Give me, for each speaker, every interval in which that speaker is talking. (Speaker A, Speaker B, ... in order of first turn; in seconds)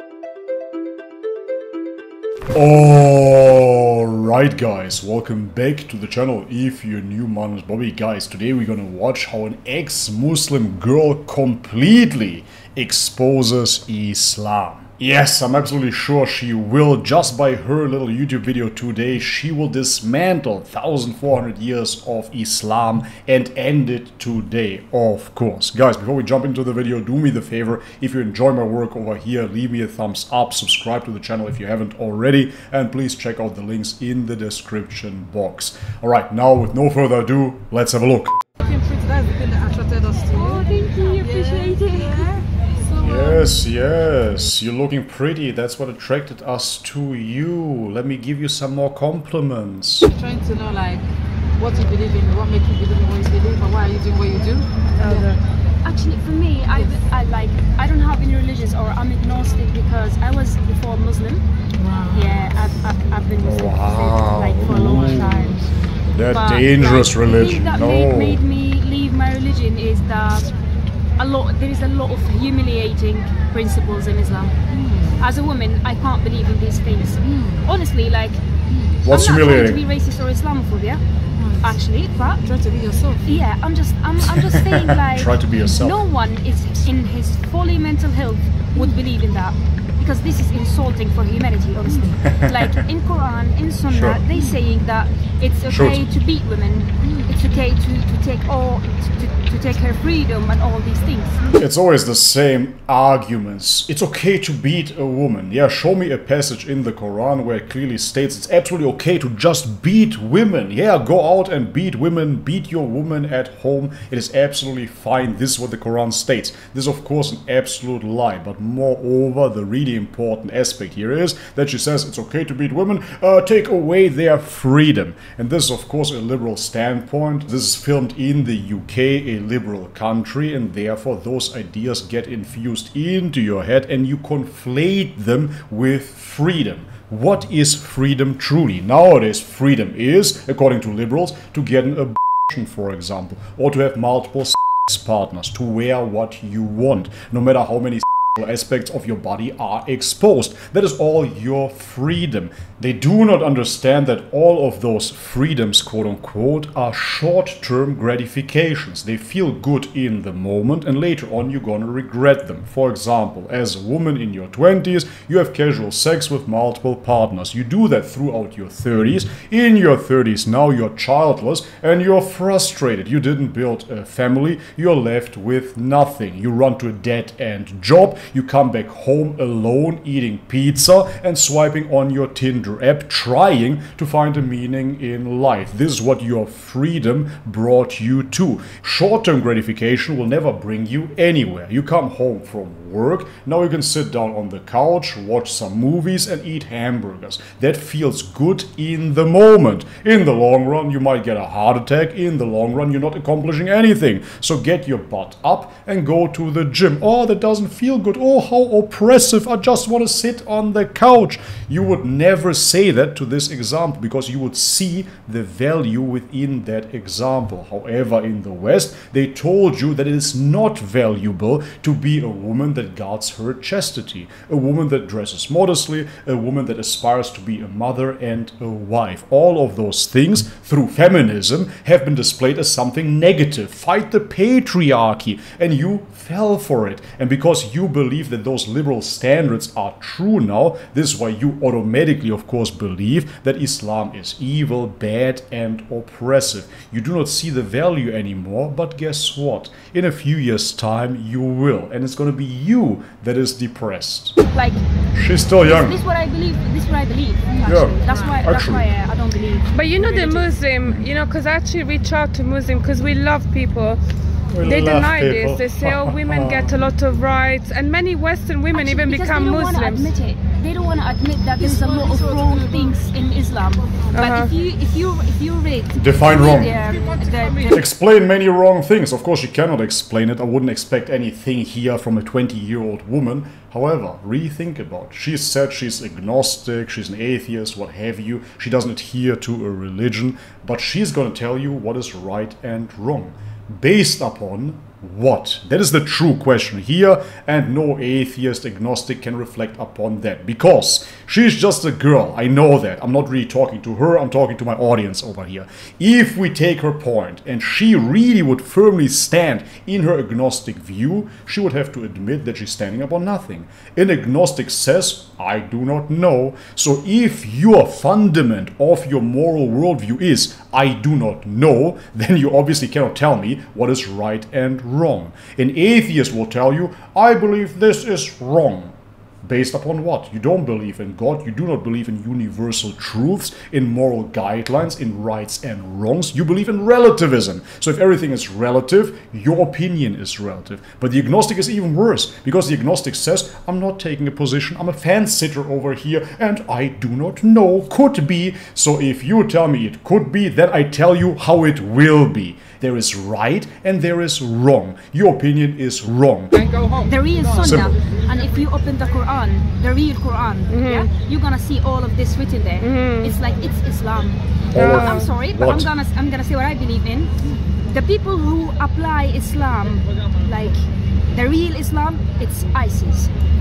Speaker A: 2.5-38.4, 43.0-50.1, 63.4-65.5, 66.1-68.4, 79.0-79.8, 84.2-86.0, 92.2-92.8, 93.9-94.2, 95.7-96.0, 101.5-254.4, 255.1-256.0, 257.6-258.9, 264.5-266.9, 275.9-276.8, 277.7-356.6, 357.6-358.0, 364.7-365.9
Speaker B: 38.6-43.7, 50.1-51.1, 51.6-55.4, 61.8-62.6, 64.6-66.2, 74.7-75.3, 77.2-77.7, 78.7-79.0, 81.3-81.8, 82.4-83.4, 91.8-92.2, 94.3-94.6, 97.0-97.4, 257.5-258.3, 271.6-273.0, 273.8-274.1
Speaker C: 40.3-42.3, 55.8-61.4, 62.1-65.6, 66.3-70.5, 71.2-74.6, 75.2-78.4, 79.0-81.0, 81.6-82.4, 83.3-101.5, 254.5-254.9, 255.6-260.5, 268.7-277.8, 356.9-370.8, 371.3-373.3
Speaker D: 259.7-264.0, 264.6-270.1, 274.1-274.5, 360.7-361.1, 362.8-363.4, 364.8-365.3